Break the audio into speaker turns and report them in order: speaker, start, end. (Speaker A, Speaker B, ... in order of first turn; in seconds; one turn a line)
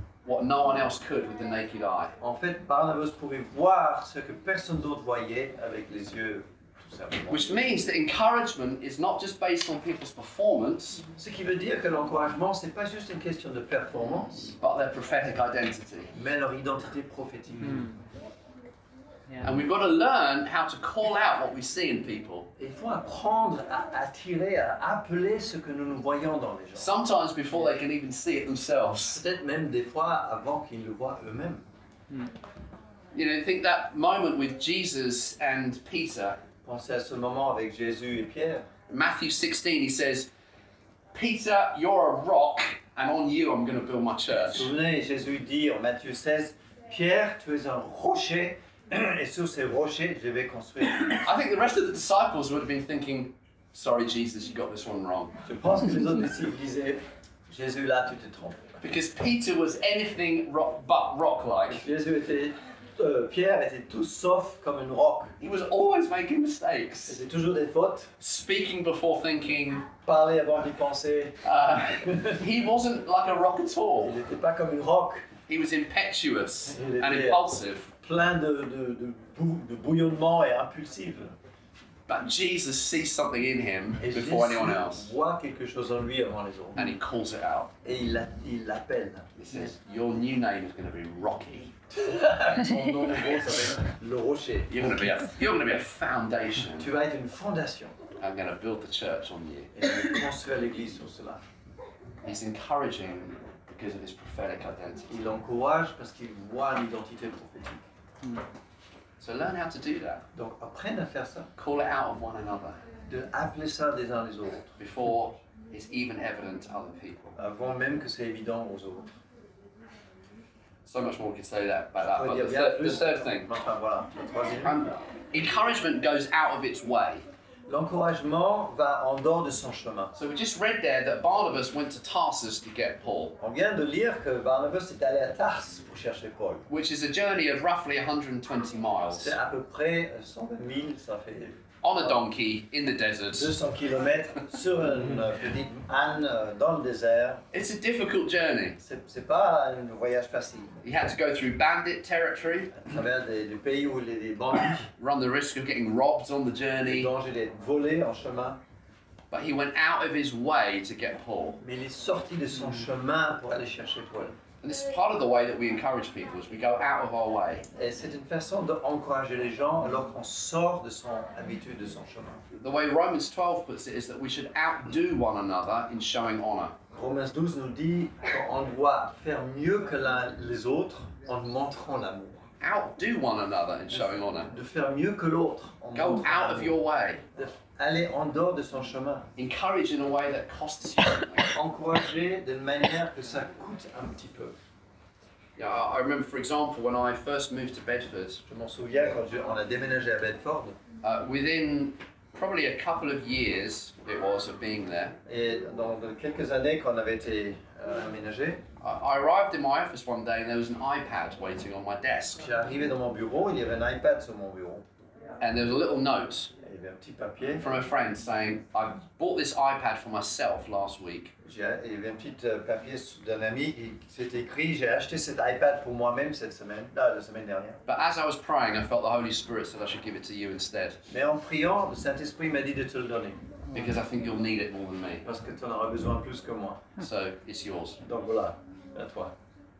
Speaker A: 0.2-2.1
Speaker B: 2.2-7.7
Speaker A: 7.3-11.0
Speaker B: 11.1-14.6
Speaker A: 14.6-16.1
Speaker B: 16.1-17.9
Speaker A: 19.4-22.5
Speaker B: 22.6-26.9
Speaker A: 26.8-29.2
Speaker B: 29.1-31.6
Speaker A: 33.1-36.4
Speaker B: 36.6-38.6
Speaker A: 38.9-40.3
Speaker A: 41.1-44.7
Speaker B: 44.5-51.3
Speaker A: 51.2-55.4
Speaker B: 55.4-58.7
Speaker A: 58.8-61.8
Speaker B: 61.7-65.3
Speaker A: 65.4-67.2
Speaker B: 67.1-68.1
Speaker A: 68.2-69.9
Speaker B: 70.0-71.4
Speaker A: 71.4-74.2
Speaker B: 72.0-72.4
Speaker B: 74.0-75.3
Speaker A: 75.5-77.9
Speaker B: 76.7-77.5
Speaker B: 78.0-81.3
Speaker A: 82.1-85.1
Speaker B: 84.0-87.0
Speaker A: 86.8-87.7
Speaker B: 87.8-89.3
Speaker A: 89.3-91.7
Speaker B: 91.9-94.9
Speaker A: 94.7-96.9
Speaker B: 96.8-97.9
Speaker A: 98.2-99.8
Speaker B: 99.7-101.4
Speaker A: 102.2-105.2
Speaker B: 105.1-107.8
Speaker A: 109.2-110.2
Speaker B: 110.3-111.5
Speaker A: 111.6-112.8
Speaker B: 113.1-114.8
Speaker A: 114.8-117.3
Speaker B: 117.3-119.2
Speaker A: 120.8-123.5
Speaker B: 122.0-124.8
Speaker A: 124.6-127.2
Speaker B: 127.7-130.1
Speaker A: 130.1-133.3
Speaker B: 133.4-136.7
Speaker A: 136.7-139.4
Speaker B: 139.1-142.2
Speaker A: 141.8-143.6
Speaker B: 143.3-147.4
Speaker A: 147.5-148.8
Speaker B: 148.8-150.8
Speaker A: 150.8-152.7
Speaker B: 152.7-154.9
Speaker A: 155.0-157.1
Speaker B: 156.8-158.6
Speaker A: 159.3-161.6
Speaker B: 161.6-164.3
Speaker A: 164.6-167.7
Speaker B: 167.7-172.4
Speaker A: 172.5-176.7
Speaker B: 176.9-182.4
Speaker A: 182.6-184.5
Speaker B: 183.9-186.8
Speaker A: 185.9-187.2
Speaker B: 187.3-189.3
Speaker A: 189.3-191.5
Speaker B: 191.5-194.5
Speaker A: 195.6-198.4
Speaker B: 198.5-200.8
Speaker A: 201.0-205.2
Speaker B: 205.2-208.6
Speaker A: 208.8-212.4
Speaker B: 212.4-214.8
Speaker A: 215.4-216.5
Speaker B: 216.6-217.6
Speaker A: 217.6-221.3
Speaker B: 221.4-227.8
Speaker A: 227.8-231.0
Speaker B: 231.1-233.4
Speaker A: 233.7-235.2
Speaker B: 235.2-236.8
Speaker A: 237.0-238.0
Speaker B: 238.0-239.3